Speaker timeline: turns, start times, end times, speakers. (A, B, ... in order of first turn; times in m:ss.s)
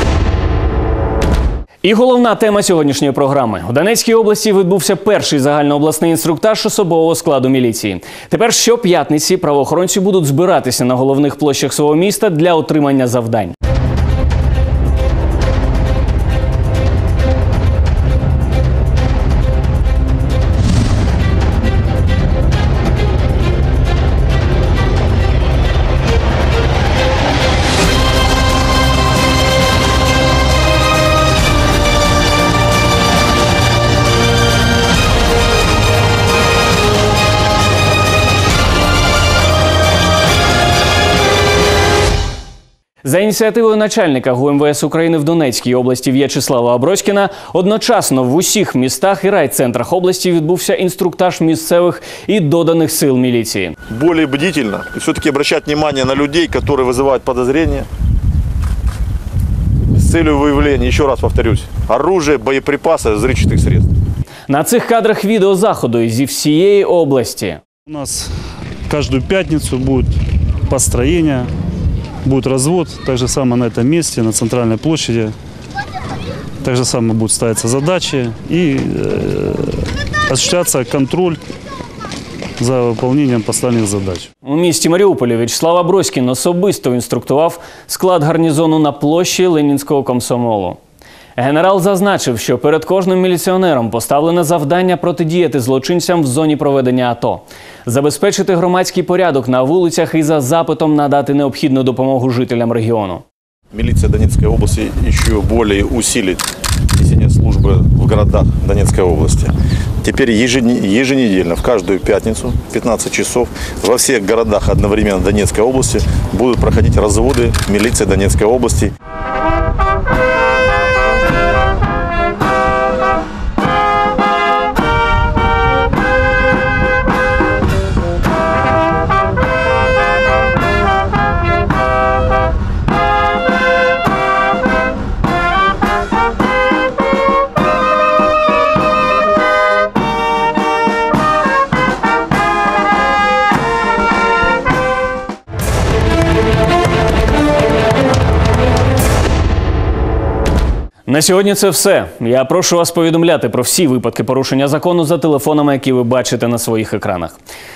0:01.8-0:13.5 A
0:43.0-0:53.7 A
0:53.9-0:57.9 B
0:59.9-1:03.9 B
1:04.5-1:07.6 A
1:07.9-1:08.3 C
1:08.9-1:10.1 C
1:10.7-1:11.5 C
1:12.2-1:15.3 C
1:16.6-1:19.7 C
1:20.3-1:21.4 C
1:22.6-1:24.3 C
1:24.4-1:30.8 A
1:31.4-1:43.2 A
1:43.7-1:46.4 B
1:47.0-1:58.9 B
2:31.1-2:37.4 A